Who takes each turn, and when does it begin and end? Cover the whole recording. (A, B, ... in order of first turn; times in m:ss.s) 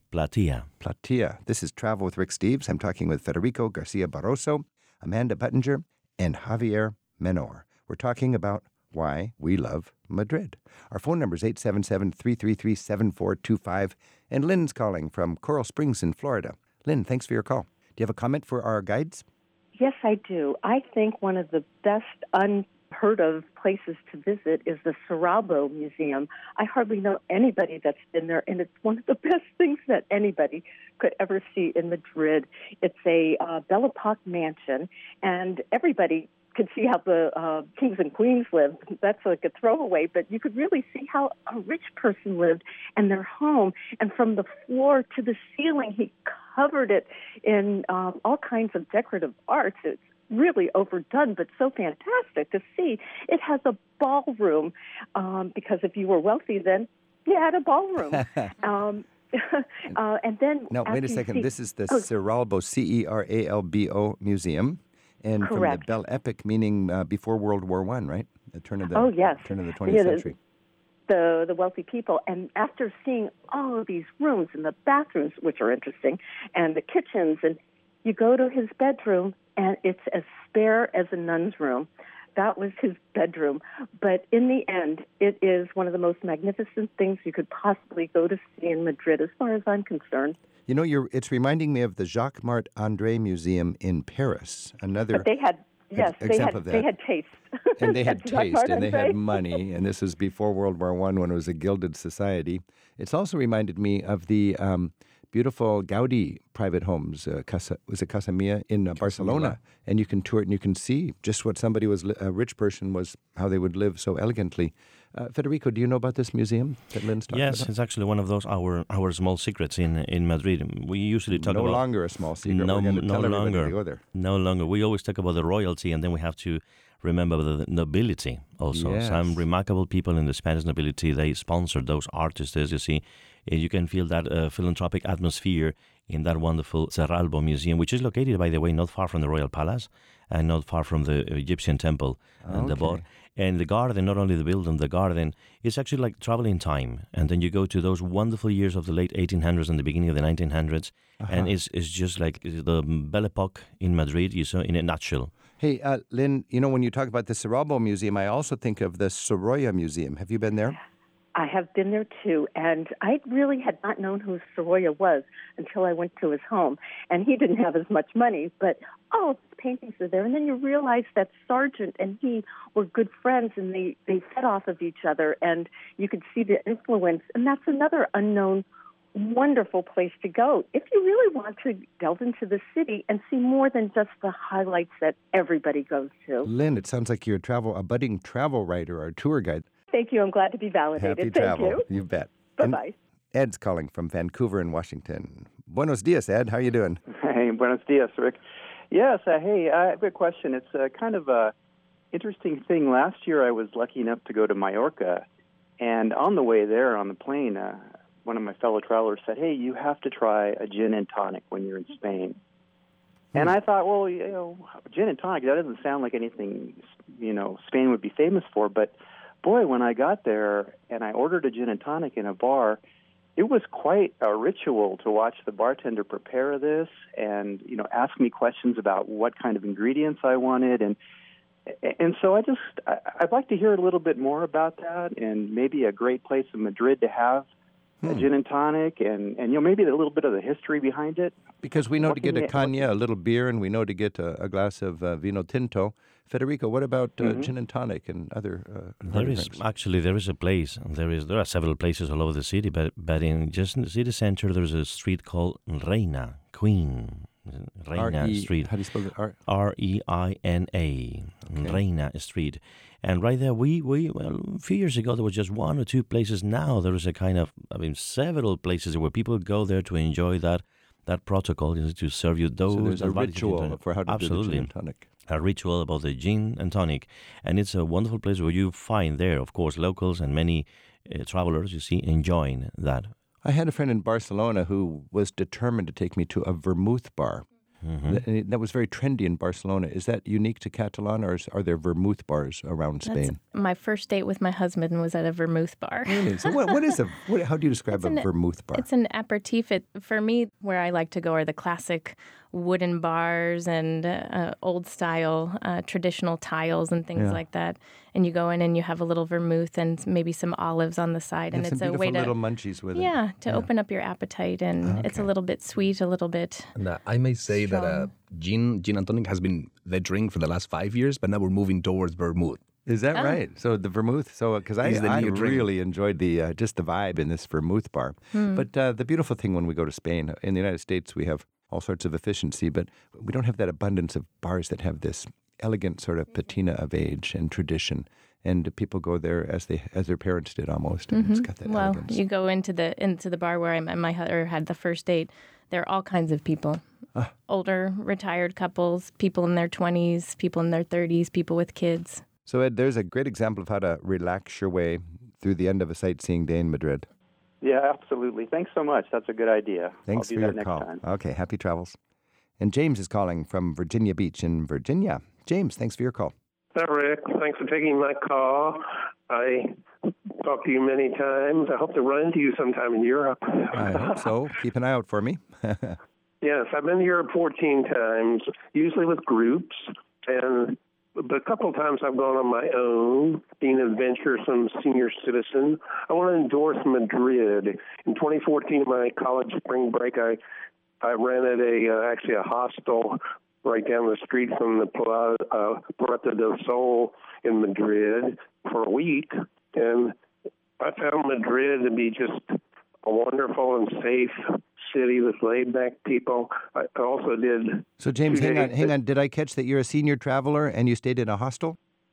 0:00.1-0:00.7 A
0:00.8-0:19.2 B
0:19.8-1:02.1 C
0:58.1-0:58.5 B
1:00.7-1:10.4 B
1:05.4-1:05.8 C
1:08.9-1:10.3 C
1:11.1-1:30.4 C
1:30.7-1:35.3 B
1:35.1-1:39.4 C
1:35.9-1:36.9 B
1:37.8-1:57.7 B
1:49.0-1:49.6 A
1:57.3-2:35.3 A
2:01.3-2:04.0 B
2:08.7-2:09.4 B
2:22.4-2:23.0 B
2:31.2-2:31.5 B
2:35.6-2:40.8 B
2:41.3-3:06.5 C
3:06.4-3:09.6 B
3:09.9-3:11.8 C
3:11.0-3:12.8 B
3:12.6-3:12.9 C
3:13.3-3:17.0 B
3:17.2-3:18.4 D
3:18.9-3:21.5 D
3:22.1-3:25.2 D
3:25.8-3:32.4 D
3:33.3-3:42.8 D
3:43.4-3:51.0 D
3:51.8-3:57.5 D
3:58.0-3:58.3 B
3:58.0-4:01.4 D
4:01.6-4:09.6 B
4:01.9-4:02.9 D
4:07.2-4:07.5 D
4:09.1-4:18.7 A
4:17.9-4:19.4 B
4:19.4-4:34.7 A
4:21.5-4:21.8 B
4:32.7-4:35.0 B
4:35.3-4:43.1 A
4:43.4-4:47.4 B
4:47.8-4:48.2 A
4:48.0-4:53.4 B
4:53.0-4:56.7 E
4:56.1-4:58.8 B
4:57.9-5:12.4 E
5:07.1-5:07.4 B
5:11.5-5:13.7 B
5:12.9-5:16.7 E
5:14.8-5:15.3 B
5:16.7-5:22.6 F
5:17.5-5:18.0 E
5:22.8-5:42.2 B
5:24.8-5:25.7 F
5:41.1-5:46.8 E
5:47.4-5:52.2 E
5:52.4-5:57.1 B
5:57.6-6:01.0 D
6:00.0-6:02.0 B
6:02.6-6:06.3 B
6:06.8-6:09.7 G
6:10.4-6:14.2 G
6:13.8-6:16.0 B
6:16.4-6:30.4 G
6:31.0-6:40.1 G
6:40.8-6:48.9 G
6:48.0-6:51.8 B